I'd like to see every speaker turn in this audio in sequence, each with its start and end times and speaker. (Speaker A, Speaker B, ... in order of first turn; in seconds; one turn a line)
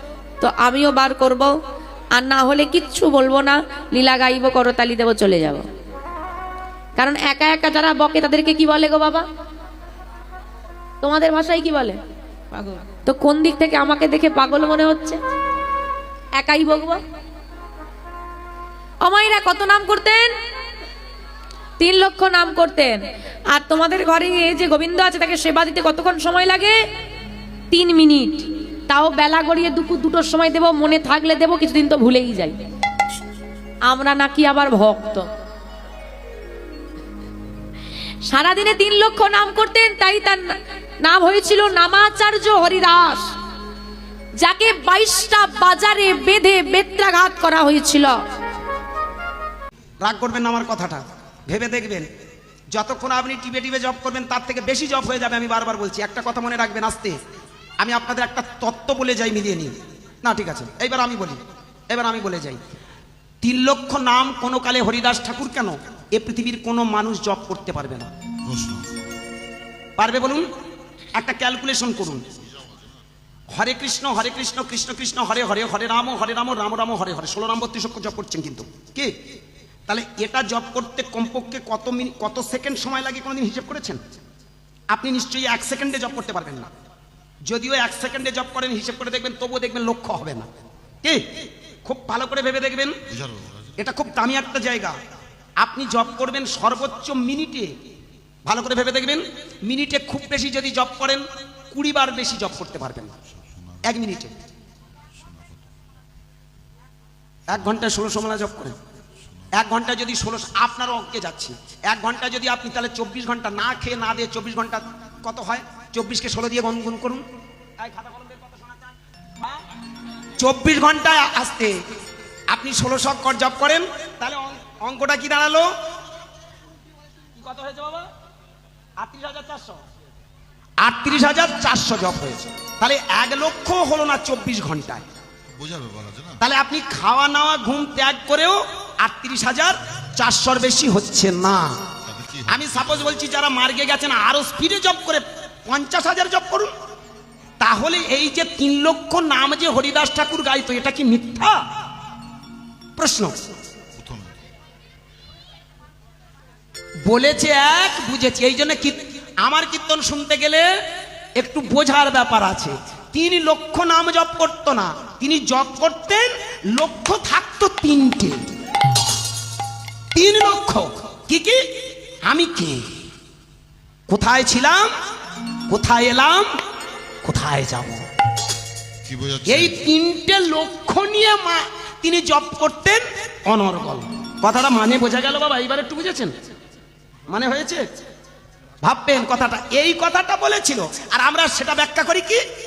Speaker A: 0.4-1.5
Speaker A: 2.1-5.6
Speaker A: 7.0-9.3
Speaker A: 11.0-12.0
Speaker A: 12.5-15.2
Speaker A: 16.4-17.0
Speaker A: 19.0-20.3
Speaker A: 21.8-23.0
Speaker A: 23.5-26.8
Speaker A: 27.7-32.6
Speaker A: 33.9-35.3
Speaker A: 38.3-43.3
Speaker A: 44.4-48.2
Speaker B: 50.0-52.1
Speaker B: 52.7-57.2
Speaker B: 57.8-62.6
Speaker B: 63.4-68.1
Speaker C: 68.5-68.9
Speaker B: 70.0-70.5
Speaker B: 71.2-72.2
Speaker B: 73.5-79.1
Speaker B: 79.9-84.0
Speaker B: 84.9-86.7
Speaker B: 87.5-90.5
Speaker B: 91.8-93.0
Speaker C: 93.1-93.8
Speaker B: 93.8-95.0
Speaker B: 95.6-97.7
Speaker B: 98.5-103.1
Speaker C: 103.5-103.8
Speaker B: 103.8-104.3
Speaker C: 105.2-105.5
Speaker B: 107.5-108.8
Speaker B: 109.5-117.2
Speaker B: 117.8-118.9
Speaker B: 120.4-121.8
Speaker B: 122.5-125.7
Speaker B: 127.3-128.1
Speaker B: 129.0-129.8
Speaker B: 130.8-135.1
Speaker C: 135.5-136.4
Speaker B: 136.4-141.7
Speaker C: 142.1-143.1
Speaker B: 142.5-146.7
Speaker B: 147.6-151.6
Speaker B: 153.0-153.3
Speaker C: 154.0-154.3
Speaker B: 157.1-160.7
Speaker B: 161.4-168.4
Speaker B: 170.1-171.6
Speaker B: 172.3-172.9
Speaker B: 174.1-174.9
Speaker B: 175.7-176.5
Speaker B: 177.2-178.1
Speaker C: 179.1-179.7
Speaker B: 179.5-186.3
Speaker B: 187.3-187.8
Speaker B: 188.8-192.4